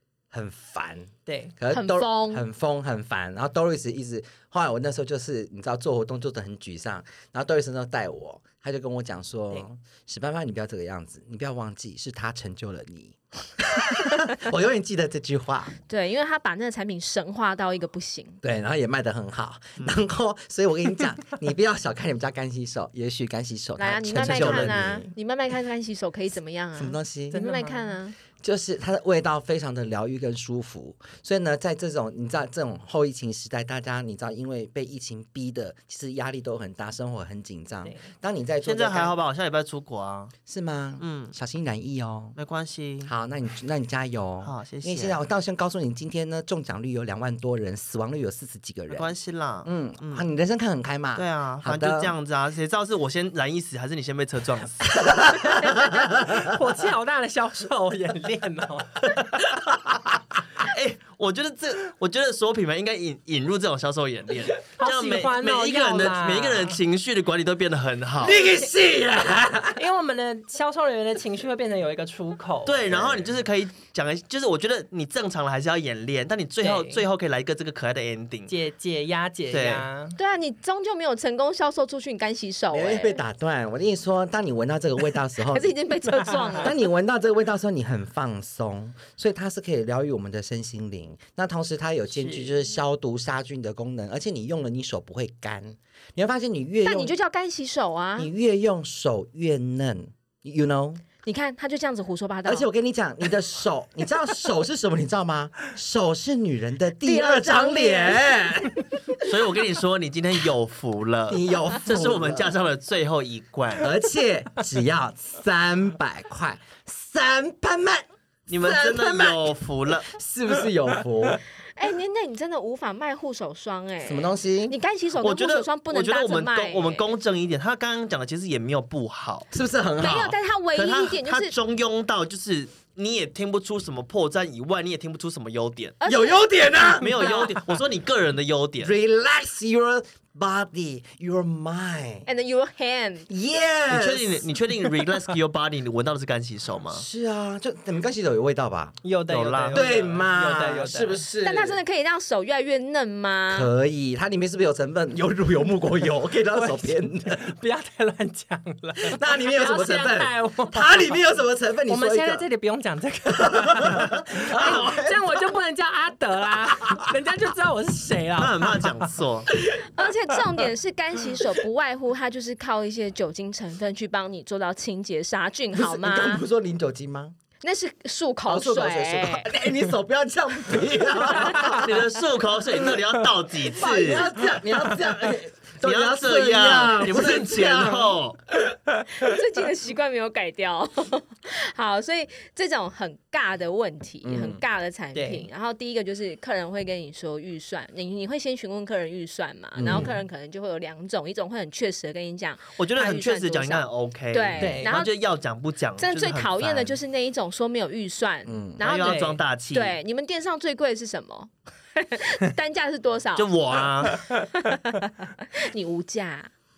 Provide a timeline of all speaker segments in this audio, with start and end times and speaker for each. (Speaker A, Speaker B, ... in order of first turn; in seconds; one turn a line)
Speaker A: 0.3-15.7
Speaker B: 1.2-1.5
Speaker C: 1.7-2.4
Speaker C: 15.9-18.4
Speaker A: 18.4-25.1
Speaker C: 23.8-28.1
Speaker D: 24.3-24.6
Speaker A: 26.8-27.4
Speaker B: 27.3-27.9
Speaker A: 28.4-39.1
Speaker D: 38.6-40.3
Speaker A: 40.5-42.4
Speaker D: 41.0-41.3
Speaker D: 42.4-43.1
Speaker A: 43.0-49.1
Speaker D: 44.4-45.2
Speaker D: 48.9-50.2
Speaker A: 49.6-52.1
Speaker D: 51.1-55.0
Speaker A: 55.0-56.3
Speaker B: 55.6-59.2
Speaker D: 60.6-68.4
Speaker B: 64.8-66.8
Speaker A: 68.2-69.8
Speaker B: 69.7-72.9
Speaker D: 72.7-78.5
Speaker A: 72.9-73.3
Speaker B: 76.6-77.0
Speaker B: 78.5-80.2
Speaker D: 79.5-79.8
Speaker C: 80.2-83.2
Speaker A: 82.7-85.7
Speaker C: 85.5-86.7
Speaker B: 86.2-86.7
Speaker A: 86.6-97.1
Speaker B: 92.1-92.6
Speaker C: 96.8-98.3
Speaker A: 98.2-101.0
Speaker C: 101.2-102.7
Speaker A: 102.4-108.8
Speaker C: 107.0-108.4
Speaker D: 109.2-113.9
Speaker A: 111.3-112.5
Speaker A: 113.8-121.4
Speaker D: 118.5-120.1
Speaker C: 121.8-127.1
Speaker A: 124.0-124.7
Speaker D: 125.2-129.5
Speaker A: 129.5-130.3
Speaker C: 130.0-131.5
Speaker D: 130.7-136.0
Speaker C: 136.0-136.4
Speaker A: 136.0-137.5
Speaker D: 137.0-138.9
Speaker A: 138.8-142.3
Speaker C: 142.2-143.3
Speaker A: 143.3-144.5
Speaker D: 143.9-147.1
Speaker A: 146.9-149.0
Speaker B: 149.0-151.2
Speaker D: 149.3-150.3
Speaker A: 149.7-151.8
Speaker C: 151.4-153.7
Speaker A: 153.5-157.5
Speaker B: 156.5-161.2
Speaker A: 159.0-162.4
Speaker B: 161.9-169.9
Speaker A: 163.3-165.3
Speaker D: 168.3-169.5
Speaker C: 169.7-176.4
Speaker A: 175.7-177.3
Speaker C: 177.6-179.5
Speaker A: 178.5-182.0
Speaker D: 181.3-184.3
Speaker A: 183.6-188.2
Speaker D: 185.8-188.4
Speaker B: 187.2-187.4
Speaker C: 189.1-205.1
Speaker A: 194.2-194.6
Speaker B: 195.1-195.5
Speaker A: 199.8-200.1
Speaker D: 202.8-207.0
Speaker B: 204.6-204.9
Speaker C: 206.0-213.5
Speaker A: 208.5-208.8
Speaker D: 208.8-210.0
Speaker B: 209.0-209.4
Speaker D: 213.4-214.2
Speaker C: 214.4-216.5